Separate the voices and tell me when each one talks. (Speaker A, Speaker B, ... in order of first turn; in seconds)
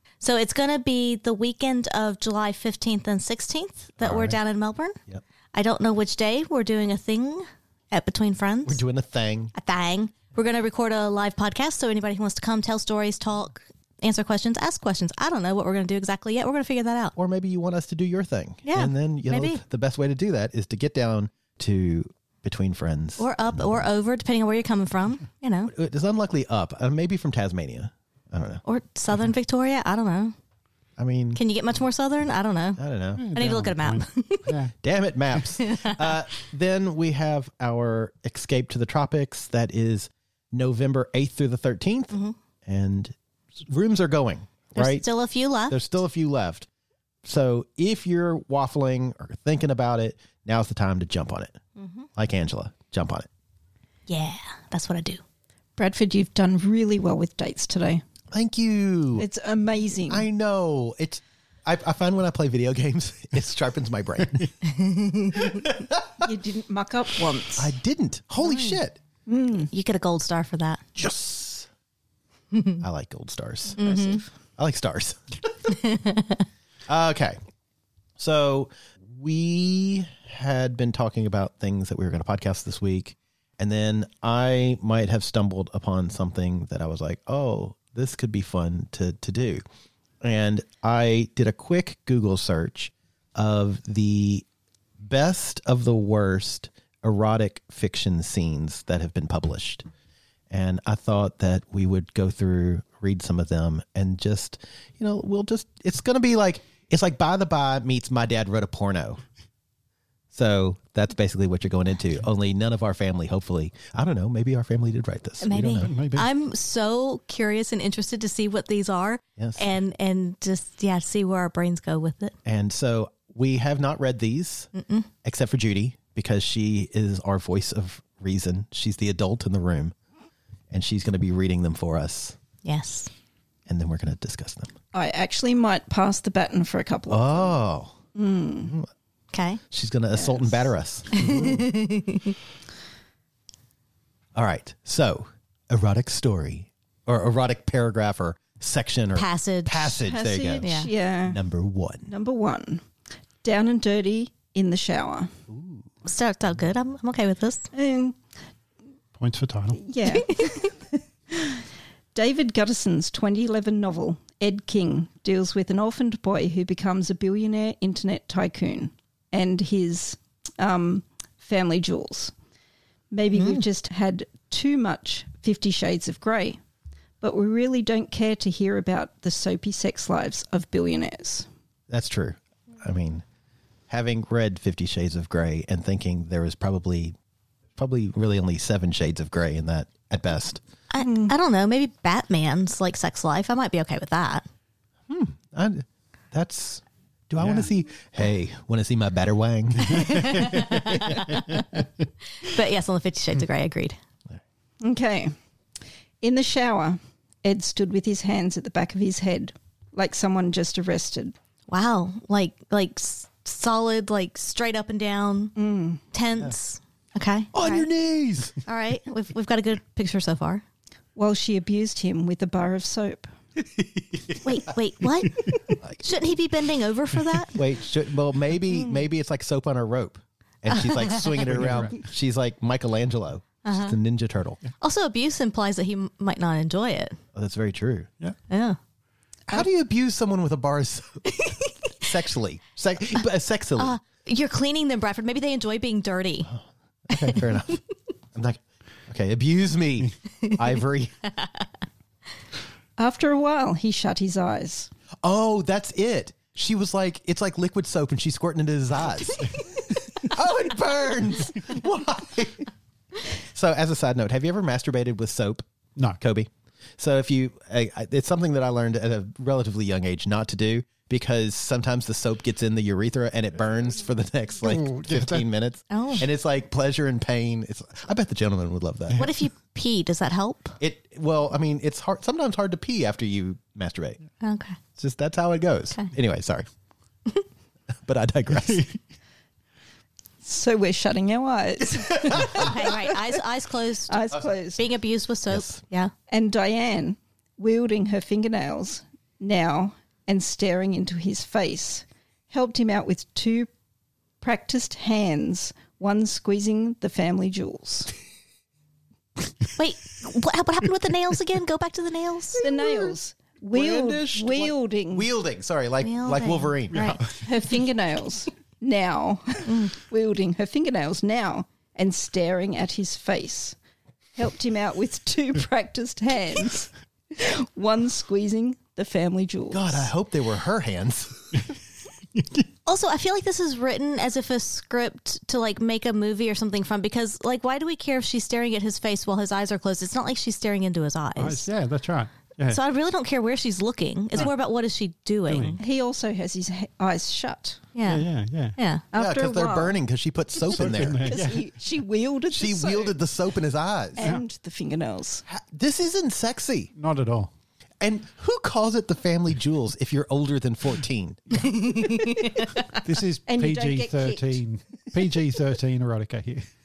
Speaker A: 0.2-5.0, 5.5-8.8, 9.6-17.1, 18.6-19.6, 23.2-25.7, 28.6-30.3, 31.3-34.5, 44.7-45.8, 51.8-52.1, 54.1-55.2, 64.7-65.5, 69.7-70.8, 72.5-72.8, 73.8-74.2, 75.7-76.4, 115.4-122.3, 124.7-125.1, 132.6-133.1, 139.3-139.6, 141.2-142.3, 149.1-150.0, 150.6-150.9, 156.0-157.7, 173.3-173.6, 190.9-194.4, 200.0-201.7, 202.4-203.9, 211.7-215.6, 216.1-217.9, 218.6-220.6, 224.4-225.4, 226.0-227.6, 231.1-231.4, 233.6-234.0, 234.8-237.2, 238.5-238.8, 243.8-246.5, 275.9-276.3, 279.2-280.8, 284.4-284.8, 292.5-296.1, 309.8-312.6, 316.0-317.2, 332.9-341.6, 342.7-345.8, 347.9-349.0, 361.7-362.8
Speaker B: 4.0-4.3, 33.2-34.7, 115.6-116.3, 159.2-159.8, 197.4-197.7, 231.4-232.0, 274.7-275.4, 288.7-288.9, 316.9-317.3, 341.4-342.8, 345.5-345.8, 348.1-348.8, 350.7-351.7, 356.9-357.5, 363.0-366.6
Speaker C: 8.6-9.5, 17.1-23.3, 25.7-28.6, 31.0-31.4, 32.8-33.3, 34.8-45.1, 45.7-46.7, 47.2-51.6, 52.1-53.3, 58.3-59.2, 60.1-64.5, 65.3-66.2, 67.6-69.0, 71.0-71.7, 72.8-75.2, 76.9-77.4, 78.2-89.6, 90.2-94.4, 95.0-99.8, 100.5-109.2, 110.3-115.9, 119.4-119.7, 122.4-124.7, 125.2-129.9, 130.7-132.4, 133.7-134.7, 137.1-138.0, 139.7-141.6, 144.3-150.7, 151.2-152.1, 155.5-155.8, 181.9-183.2, 183.9-187.1, 187.8-190.6, 195.1-200.3, 217.5-218.5, 227.5-234.6, 237.3-238.1, 239.5-241.2, 242.0-243.9, 246.5-247.8, 248.3-251.2, 255.2-259.5, 260.2-262.7, 263.5-265.6, 266.2-279.3, 280.8-284.2, 285.0-286.7, 288.0-288.9, 292.2-292.7, 295.5-295.8, 312.6-313.1, 313.7-317.2, 329.7-331.4, 349.1-351.3, 352.5-354.2, 355.5-356.9, 358.0-361.7
Speaker D: 55.8-58.0, 59.2-60.3, 66.2-67.7, 69.3-69.7, 134.9-137.6, 138.1-138.7, 150.0-151.4, 152.1-152.8, 153.4-155.3, 157.7-158.2, 159.8-160.7, 161.3-161.6, 162.1-172.3, 173.1-176.6, 177.2-181.5, 191.0-191.3, 204.8-205.3, 206.2-211.3, 215.6-216.0, 221.2-223.3, 253.0-254.9, 290.4-293.0, 294.1-294.8, 296.3-303.7, 304.4-308.1, 312.6-315.3, 317.4-323.8, 324.4-330.1, 345.8-347.8, 349.1-350.0, 351.2-353.2, 354.2-355.4, 363.4-364.6